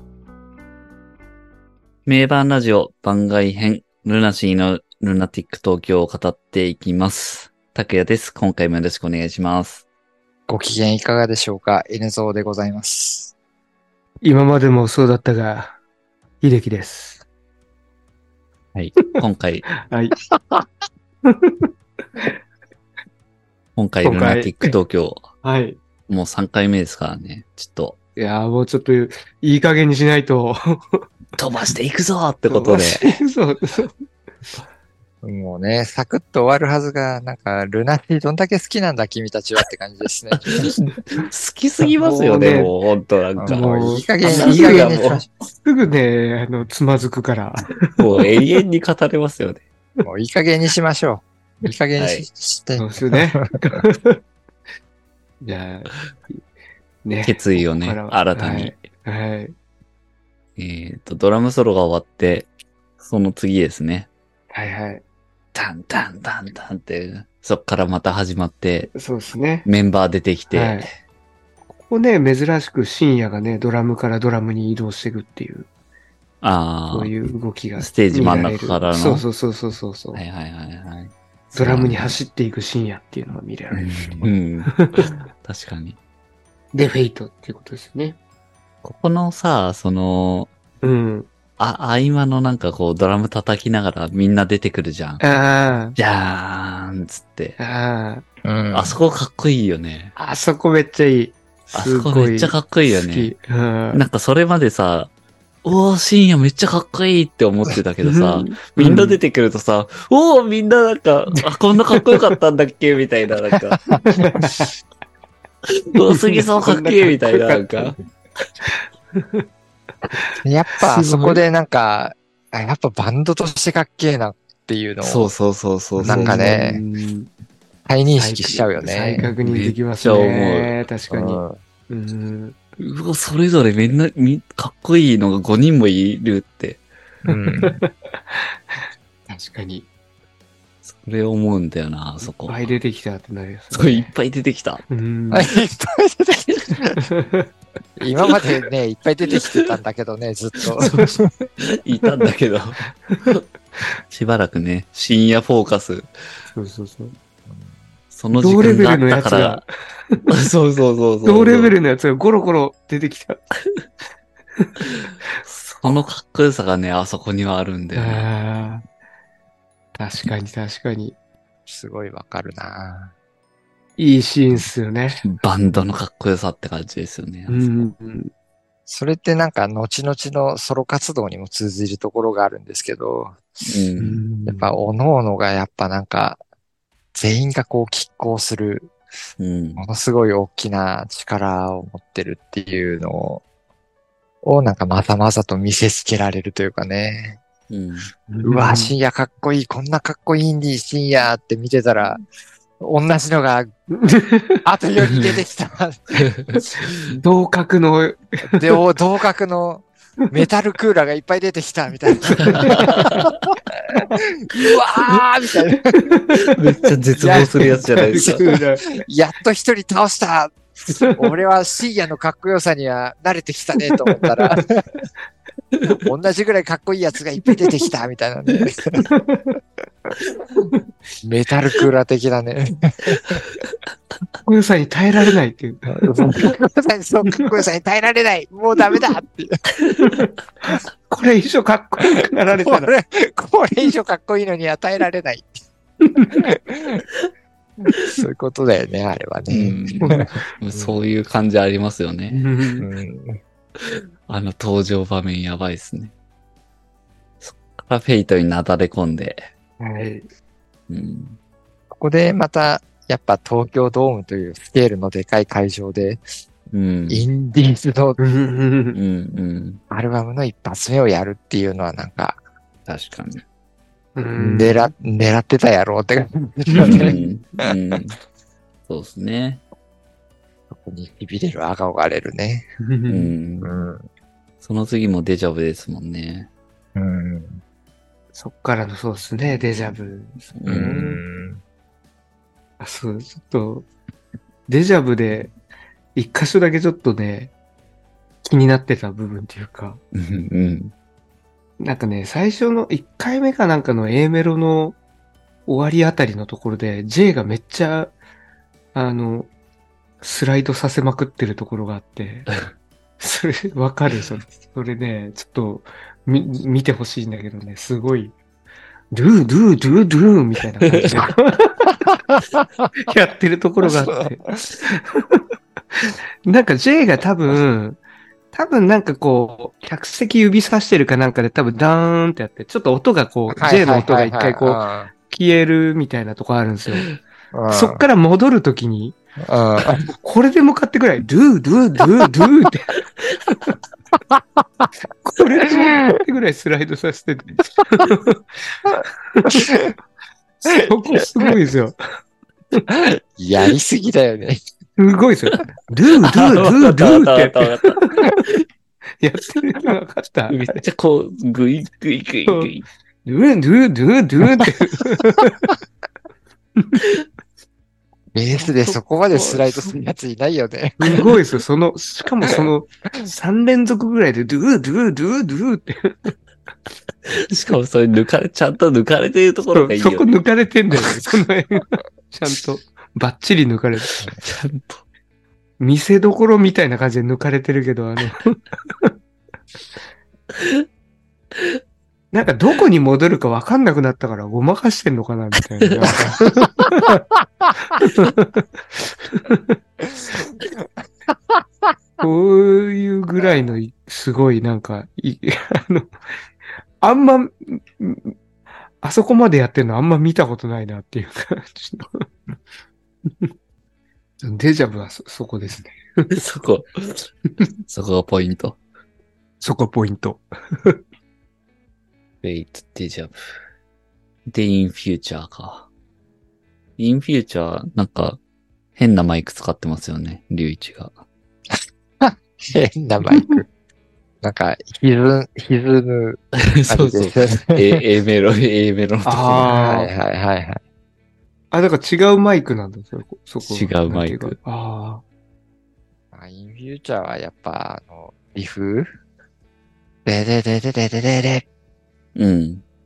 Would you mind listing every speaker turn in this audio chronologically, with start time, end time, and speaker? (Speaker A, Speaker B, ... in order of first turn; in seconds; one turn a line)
Speaker A: 2.1-9.8
Speaker B: 10.5-13.3
Speaker C: 14.2-15.8
Speaker C: 16.4-17.2
Speaker A: 18.7-19.7
Speaker C: 19.8-20.2
Speaker B: 20.4-20.7
Speaker C: 21.2-22.3
Speaker A: 23.8-25.3
Speaker C: 24.0-24.7
Speaker C: 25.4-25.8
Speaker A: 26.1-27.9
Speaker C: 28.2-31.1
Speaker A: 31.4-33.1
Speaker C: 32.5-33.9
Speaker B: 35.2-40.7
Speaker A: 40.3-45.2
Speaker C: 42.0-42.7
Speaker B: 43.4-45.2
Speaker C: 43.5-45.0
Speaker C: 45.6-47.9
Speaker A: 48.0-49.6
Speaker B: 50.0-53.4
Speaker A: 52.0-52.3
Speaker C: 52.8-54.2
Speaker C: 55.4-56.4
Speaker C: 57.0-59.5
Speaker A: 57.2-58.8
Speaker A: 60.6-64.1
Speaker C: 64.5-65.0
Speaker A: 65.5-68.9
Speaker C: 68.9-69.7
Speaker A: 69.6-70.9
Speaker C: 70.5-70.9
Speaker C: 71.8-75.7
Speaker A: 76.4-77.1
Speaker C: 76.9-80.2
Speaker A: 77.8-79.2
Speaker A: 80.1-82.2
Speaker C: 81.5-85.1
Speaker A: 83.7-86.0
Speaker C: 86.7-88.2
Speaker A: 88.8-90.5
Speaker C: 90.8-91.3
Speaker A: 91.6-95.2
Speaker C: 95.2-96.0
Speaker A: 96.0-97.6
Speaker C: 97.6-98.2
Speaker B: 98.4-99.0
Speaker A: 98.7-100.1
Speaker C: 100.2-104.0
Speaker A: 101.7-103.3
Speaker A: 103.9-105.1
Speaker A: 105.6-113.8
Speaker C: 108.0-109.2
Speaker B: 113.8-114.6
Speaker C: 114.0-114.7
Speaker A: 115.7-118.0
Speaker C: 116.0-118.0
Speaker C: 118.6-119.5
Speaker C: 120.1-121.4
Speaker B: 120.4-125.3
Speaker A: 125.0-126.5
Speaker C: 126.0-127.3
Speaker B: 126.0-126.8
Speaker B: 127.8-129.3
Speaker C: 128.2-132.6
Speaker A: 129.4-130.8
Speaker B: 131.1-131.6
Speaker A: 132.8-136.8
Speaker C: 137.2-139.9
Speaker B: 137.3-137.8
Speaker A: 140.8-142.7
Speaker C: 142.4-144.1
Speaker A: 143.7-144.8
Speaker C: 144.9-145.5
Speaker B: 145.3-147.0
Speaker C: 146.9-147.5
Speaker B: 148.0-151.3
Speaker A: 149.3-149.7
Speaker A: 150.7-151.1
Speaker A: 151.6-153.4
Speaker A: 154.1-156.1
Speaker C: 156.5-157.1
Speaker B: 157.5-157.8
Speaker A: 158.1-159.6
Speaker C: 158.4-160.3
Speaker A: 160.3-161.8
Speaker C: 161.2-163.5
Speaker C: 164.6-164.8
Speaker A: 165.4-168.3
Speaker C: 167.9-168.8
Speaker C: 170.0-171.2
Speaker B: 171.7-173.1
Speaker C: 174.0-175.2
Speaker A: 175.2-177.9
Speaker C: 177.5-178.3
Speaker B: 178.9-183.5
Speaker A: 183.6-184.2
Speaker C: 184.0-184.7
Speaker B: 184.5-186.4
Speaker B: 187.2-188.9
Speaker A: 189.4-189.8
Speaker B: 189.8-193.4
Speaker B: 194.4-197.4
Speaker A: 197.7-198.1
Speaker C: 198.3-198.9
Speaker B: 198.4-202.2
Speaker B: 202.8-203.7
Speaker C: 203.9-204.7
Speaker B: 204.6-206.2
Speaker A: 206.2-207.2
Speaker C: 206.5-208.8
Speaker B: 208.5-216.1
Speaker C: 212.4-212.9
Speaker A: 212.5-213.4
Speaker C: 215.9-216.5
Speaker A: 216.3-218.5
Speaker C: 217.2-218.9
Speaker B: 217.2-225.0
Speaker C: 221.0-221.3
Speaker C: 224.0-224.6
Speaker B: 226.0-229.1
Speaker C: 227.4-227.8
Speaker C: 229.0-229.6
Speaker B: 231.2-233.4
Speaker A: 233.1-233.8
Speaker C: 234.4-236.2
Speaker B: 235.9-239.6
Speaker C: 240.0-242.9
Speaker B: 242.2-245.6
Speaker C: 246.0-246.4
Speaker B: 246.3-247.1
Speaker B: 247.9-250.9
Speaker A: 249.5-252.4
Speaker C: 252.3-252.9
Speaker B: 252.8-253.4
Speaker A: 253.8-256.1
Speaker A: 257.4-259.5
Speaker C: 259.8-260.3
Speaker A: 260.9-261.4
Speaker B: 261.9-266.2
Speaker A: 266.7-267.3
Speaker B: 267.1-268.2
Speaker C: 268.2-269.0
Speaker A: 268.9-269.8
Speaker B: 269.9-272.4
Speaker A: 272.9-273.4
Speaker C: 274.1-274.9
Speaker B: 274.4-277.7
Speaker C: 276.7-277.1
Speaker A: 276.8-278.2
Speaker A: 278.9-279.6
Speaker B: 280.7-282.7
Speaker C: 282.8-283.3
Speaker A: 283.1-283.7
Speaker B: 283.6-284.0
Speaker A: 284.6-286.5
Speaker B: 286.9-287.6
Speaker C: 288.3-291.2
Speaker A: 290.6-291.0
Speaker B: 290.7-291.6
Speaker C: 292.8-293.9
Speaker C: 294.7-295.5
Speaker C: 296.1-297.5
Speaker C: 298.4-300.0
Speaker A: 300.1-300.9
Speaker C: 301.8-305.0
Speaker C: 305.7-308.1
Speaker C: 308.9-309.5
Speaker C: 310.2-312.5
Speaker C: 313.2-318.3
Speaker C: 319.1-322.1
Speaker A: 320.9-321.2
Speaker B: 322.0-322.9
Speaker C: 323.0-328.0
Speaker B: 323.8-324.6
Speaker C: 328.5-337.1
Speaker B: 333.5-335.1
Speaker B: 337.5-338.0
Speaker C: 337.7-339.1
Speaker B: 339.4-340.1
Speaker C: 340.2-342.9
Speaker A: 343.2-343.6
Speaker B: 344.3-344.9
Speaker C: 345.2-348.8
Speaker B: 345.7-346.2
Speaker B: 348.9-349.9
Speaker C: 349.3-349.8
Speaker C: 350.6-352.0
Speaker B: 352.9-354.6
Speaker C: 355.0-358.3
Speaker A: 356.2-358.6
Speaker C: 359.2-360.8
Speaker A: 360.5-362.9
Speaker C: 363.2-365.7
Speaker B: 368.3-371.4
Speaker C: 369.3-369.9
Speaker C: 371.0-376.3
Speaker B: 372.4-372.7
Speaker A: 377.2-380.3
Speaker C: 379.7-384.2
Speaker A: 384.4-385.0
Speaker C: 385.8-389.1
Speaker A: 390.5-390.8
Speaker A: 391.5-391.8
Speaker C: 392.3-397.2
Speaker C: 397.9-398.6
Speaker C: 399.3-399.8
Speaker B: 400.2-401.9
Speaker C: 402.2-406.1
Speaker C: 407.0-408.3
Speaker C: 409.0-412.2
Speaker C: 413.2-413.5
Speaker C: 414.4-416.4
Speaker A: 416.3-417.3
Speaker A: 417.9-418.8
Speaker C: 419.6-421.0
Speaker A: 422.4-423.3
Speaker A: 424.5-425.9
Speaker A: 427.0-428.4
Speaker A: 428.9-431.1
Speaker B: 432.2-433.6
Speaker C: 433.3-433.6
Speaker B: 434.4-438.0
Speaker A: 436.6-439.7
Speaker C: 439.2-440.1
Speaker B: 439.7-440.8
Speaker C: 441.7-445.2
Speaker A: 443.6-444.6
Speaker B: 446.3-449.1
Speaker B: 450.2-451.6
Speaker A: 452.4-452.8